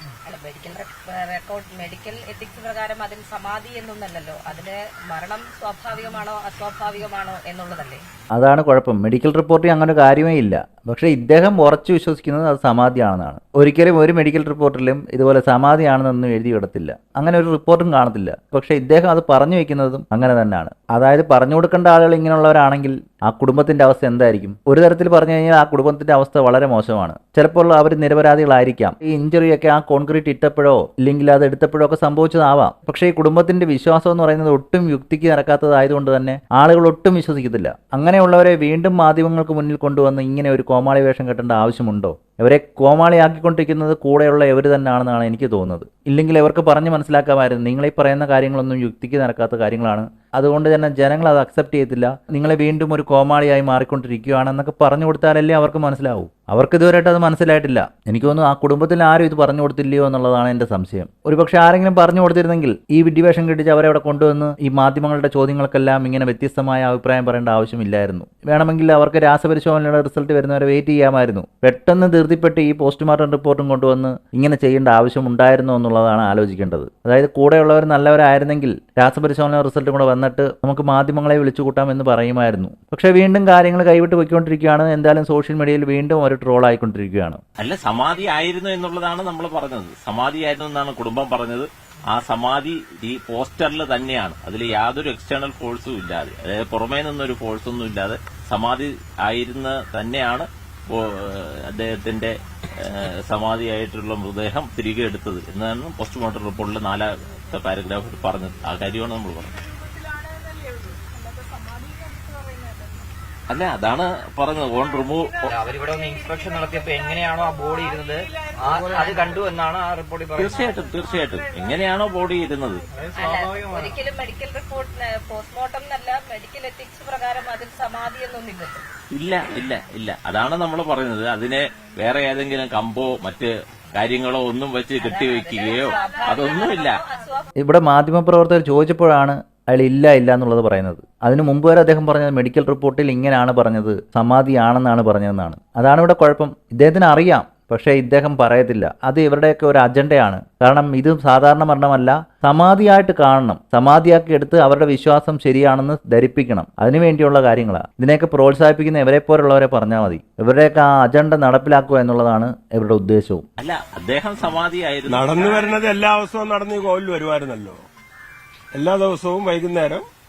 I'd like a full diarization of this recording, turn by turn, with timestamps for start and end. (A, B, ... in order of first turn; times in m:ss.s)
0:00.2-0:08.0 A
0:08.3-1:27.4 B
1:27.6-1:49.6 C
1:53.5-1:55.5 C
1:55.5-2:00.7 D
2:00.4-2:02.8 C
2:03.0-2:04.0 D
2:03.1-2:08.8 A
2:09.1-2:17.0 C
2:15.0-2:17.5 A
2:17.6-2:43.4 B
2:43.6-2:45.7 C
2:45.1-2:47.8 E
2:48.7-2:50.0 E